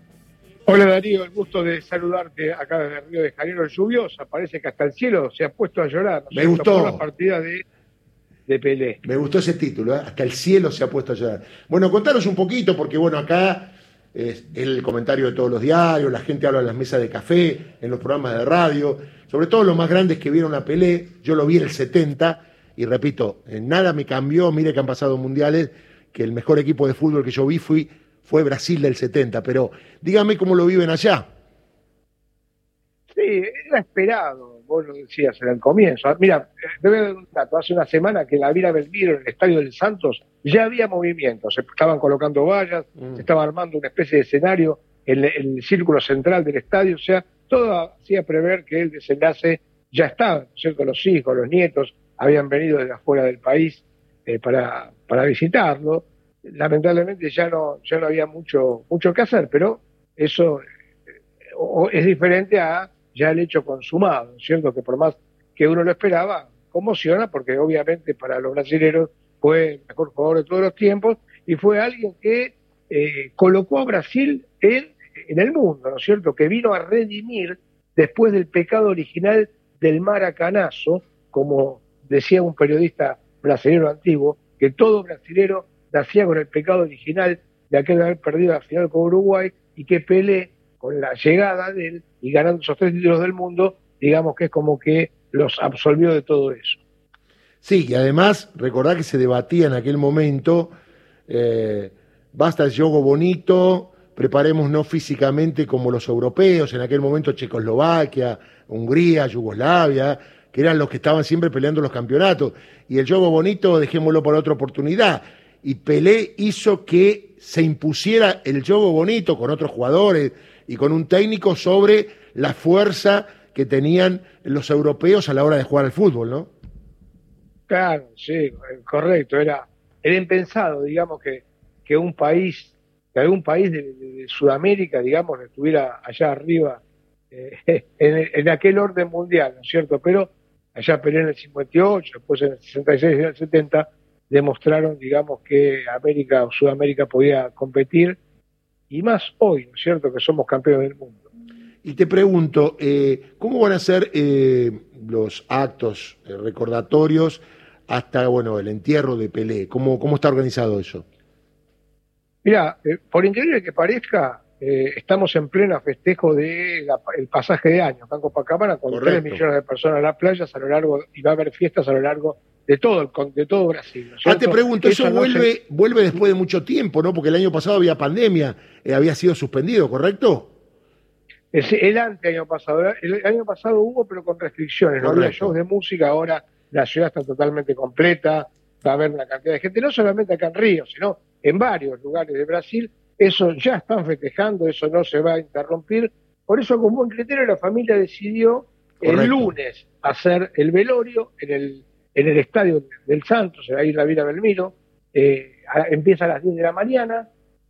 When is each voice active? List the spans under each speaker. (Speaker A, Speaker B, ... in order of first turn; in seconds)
Speaker A: 0.7-7.6, 8.5-9.0, 33.1-60.6, 61.5-96.8, 127.7-136.8, 137.3-148.2, 148.9-151.2, 162.4-175.5, 181.5-207.3
Speaker B: 6.3-7.0, 9.0-31.2, 97.6-100.7, 101.3-126.5, 151.8-161.0, 168.9-169.4, 174.2-180.5, 185.0-185.5, 199.0-199.5